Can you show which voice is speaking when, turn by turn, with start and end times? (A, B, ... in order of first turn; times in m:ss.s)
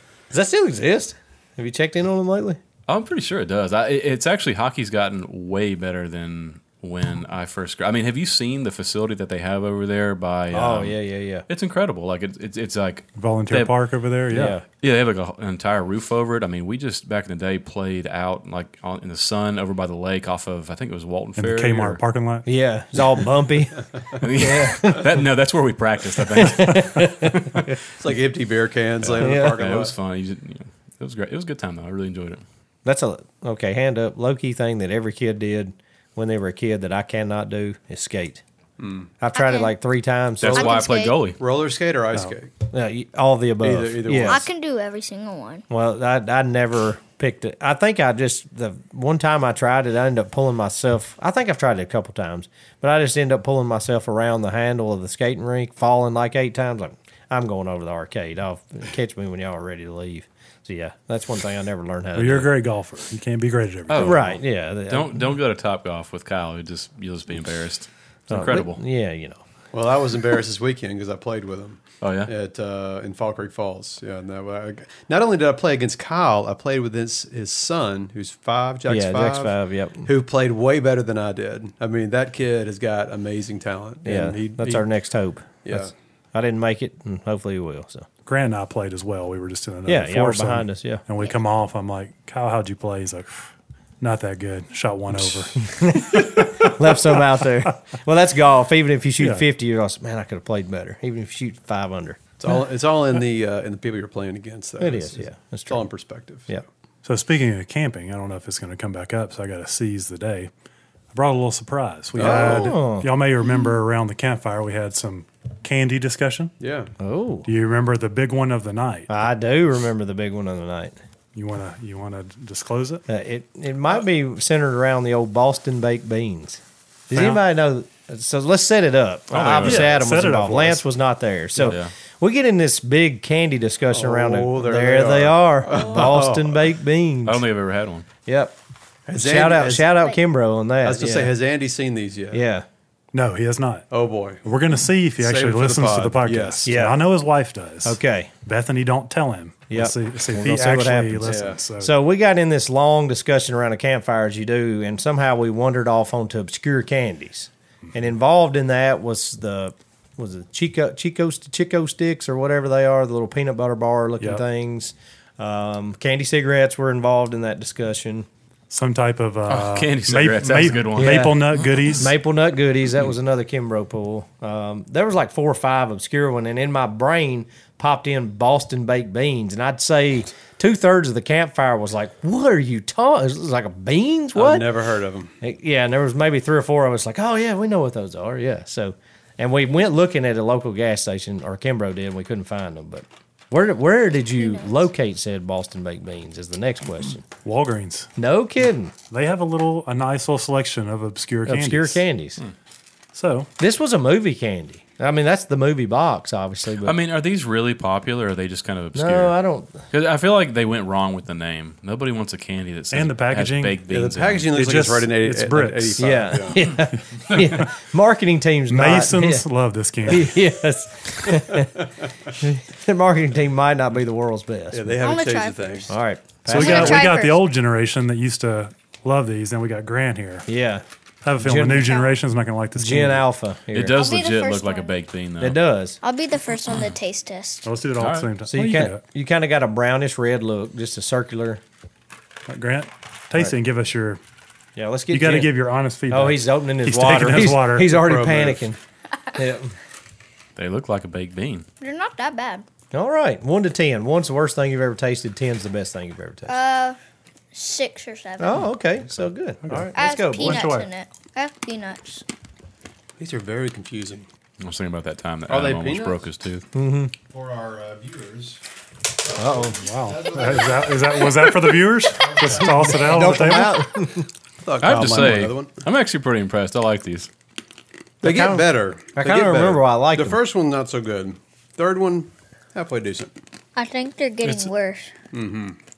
0:00.3-0:02.6 A
0:02.9-0:11.0 B
0:10.5-0:11.4 A
0:11.5-0:13.8 B
0:13.2-0:14.6 C
0:14.3-0:14.6 A
0:14.7-0:22.0 B
0:21.4-0:22.5 C
0:22.4-0:25.2 A
0:24.2-0:27.8 B
0:26.2-0:27.7 A
0:28.0-0:29.9 D
0:29.0-0:32.4 B
0:29.2-0:29.6 A
0:32.8-0:38.4 A
0:38.8-0:39.1 D
0:39.2-0:40.8 A
0:39.3-0:39.7 E
0:40.4-0:41.4 B
0:40.5-0:41.3 E
0:41.4-0:42.5 D
0:42.7-0:44.4 A
0:43.6-0:44.5 D
0:44.2-0:45.6 E
0:45.7-1:02.5 A
1:02.1-1:04.4 C
1:03.9-1:08.8 B
1:04.0-1:05.2 A
1:08.3-1:09.4 A
1:09.7-1:24.8 D
1:12.0-1:12.3 B
1:18.9-1:20.1 A
1:24.0-1:28.1 A
1:25.6-1:25.9 D
1:28.2-1:35.6 C
1:29.9-1:31.0 A
1:35.5-1:42.2 A
1:36.2-1:36.9 C
1:39.2-1:39.4 C
1:42.4-1:46.5 D
1:44.8-1:45.8 A
1:47.0-1:50.5 C
1:51.1-1:56.5 C
1:52.2-1:52.8 D
1:52.2-1:53.1 A
1:56.6-1:56.9 D
1:57.0-1:57.5 A
1:57.4-1:59.1 C
1:59.1-2:01.0 A
2:01.3-2:03.0 C
2:03.1-2:17.4 A
2:07.1-2:07.4 C
2:09.3-2:09.9 B
2:09.5-2:10.8 C
2:11.6-2:11.9 B
2:13.9-2:16.6 D
2:17.2-2:18.1 B
2:18.2-2:18.6 A
2:19.1-2:19.9 D
2:19.1-2:21.3 A
2:20.8-2:22.4 D
2:22.3-2:22.6 A
2:23.1-2:23.9 C
2:23.9-2:24.4 D
2:24.4-2:31.9 C
2:25.2-2:26.8 D
2:26.6-2:27.1 A
2:27.8-2:28.3 A
2:29.7-2:48.3 A
2:31.2-2:31.6 D
2:48.7-2:52.1 C
2:49.5-2:51.4 B
2:51.0-2:51.4 A
2:52.0-3:04.7 A
3:04.3-3:05.3 D
3:05.4-3:17.2 A
3:14.4-3:14.8 E
3:17.4-3:18.1 C
3:18.2-3:18.9 A
3:19.1-3:22.0 C
3:21.5-3:22.4 A
3:23.1-3:23.5 C
3:23.6-3:26.9 A
3:26.8-3:29.3 B
3:28.9-3:29.8 A
3:29.9-3:34.5 B
3:32.9-3:33.8 C
3:33.9-3:36.6 D
3:34.5-3:36.1 C
3:36.0-3:39.4 A
3:37.3-3:37.7 C
3:38.7-3:40.5 C
3:40.0-3:41.7 A
3:42.3-3:45.0 A
3:44.7-3:45.9 D
3:45.0-3:45.9 E
3:45.9-3:47.1 A
3:46.5-3:50.5 C
3:46.5-3:47.4 E
3:50.5-3:50.8 A
3:51.2-3:53.2 C
3:51.4-3:52.0 A
3:52.7-3:54.0 A
3:53.7-3:55.6 B
3:53.9-3:54.9 E
3:55.4-3:56.0 A
3:56.0-3:57.7 E
3:57.6-3:59.0 C
3:58.0-3:58.3 B
3:58.5-4:01.6 A
4:02.5-4:04.2 C
4:04.8-4:05.6 A
4:05.1-4:08.0 C
4:06.1-4:08.8 A
4:07.8-4:08.6 D
4:09.3-4:09.7 A
4:10.6-4:11.6 B
4:11.8-4:12.6 E
4:12.9-4:16.5 A
4:16.5-4:17.0 E
4:17.5-4:18.7 E
4:18.4-4:20.7 A
4:19.6-4:20.9 C
4:19.9-4:22.2 E
4:23.2-4:24.2 D
4:24.6-4:26.6 B
4:25.5-4:26.2 D
4:26.7-4:27.1 A
4:27.2-4:28.6 D
4:29.3-4:29.8 A
4:29.7-4:33.9 C
4:30.0-4:30.8 D
4:32.4-4:34.3 A
4:34.6-4:35.7 D
4:34.8-4:37.3 B
4:38.2-4:40.4 A
4:38.2-4:43.3 D
4:43.8-4:45.1 E
4:44.4-4:44.7 C
4:45.3-4:45.8 D